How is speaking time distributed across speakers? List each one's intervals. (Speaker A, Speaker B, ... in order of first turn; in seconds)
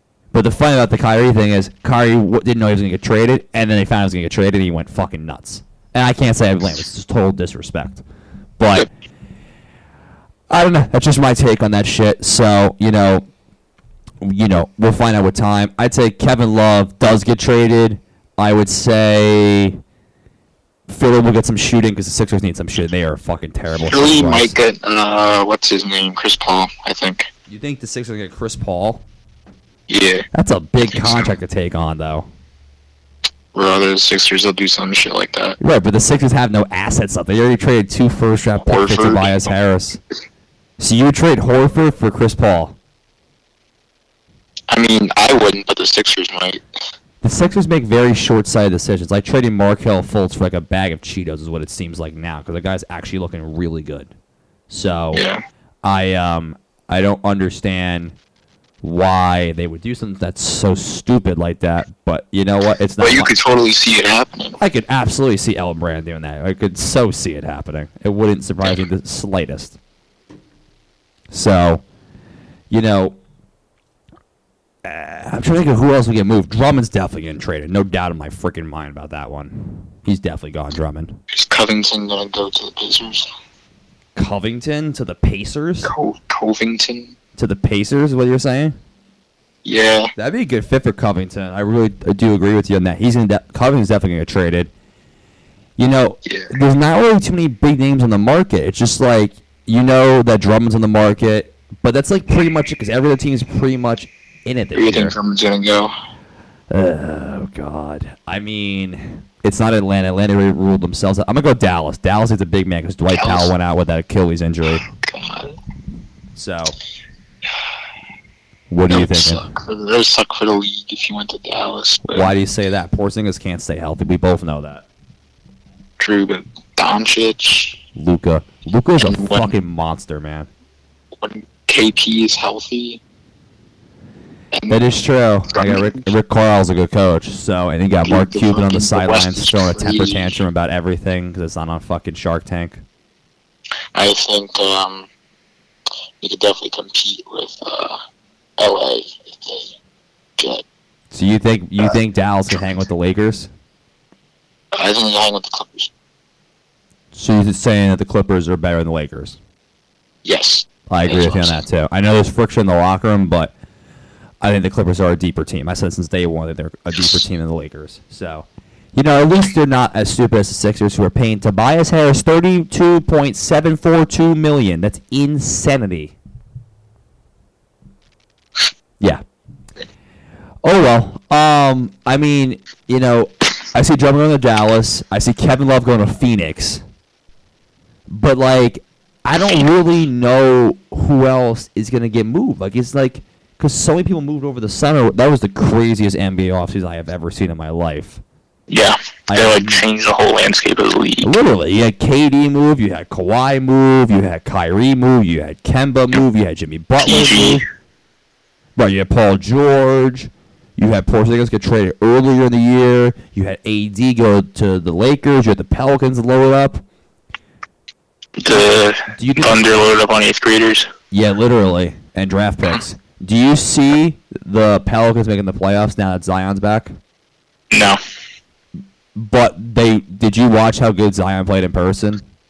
Speaker A: 0.3-8.0, 8.6-8.9, 10.5-13.3, 14.2-19.8, 20.9-24.6, 27.5-29.0, 30.3-32.3, 35.6-40.0, 40.8-42.8, 47.2-54.1, 54.7-55.2, 55.8-58.1, 58.8-63.3, 64.6-69.8, 71.3-71.8, 72.7-73.2, 74.8-81.2, 84.2-85.9, 87.4-88.8, 90.2-94.7, 95.8-105.2, 106.7-114.8, 116.4-116.8, 118.7-119.4, 122.1-124.8, 128.0-130.5, 134.7-142.8, 151.1-153.5, 157.1-159.4, 160.9-163.5, 164.4-176.1, 180.6-186.8, 188.1-198.2, 199.3-199.8, 201.2-207.6, 208.8-216.8, 218.5-219.8, 221.1-226.9, 229.2-232.2
Speaker B: 23.9-27.3, 29.9-30.2, 33.5-35.6, 38.6-39.5, 44.7-46.6, 55.1-55.4, 63.0-64.6, 81.3-83.3, 85.8-87.1, 89.6-90.1, 104.7-105.9, 113.2-113.5, 114.9-115.6, 118.9-122.3, 126.0-127.8, 129.0-129.5, 131.2-133.0, 134.5-134.8, 135.5-136.1, 138.0-140.3, 143.9-145.1, 146.2-148.0, 148.6-149.7, 150.4-150.6, 154.7-155.9, 160.2-161.6, 198.7-201.3, 207.0-207.6, 218.4-220.9, 227.7-228.0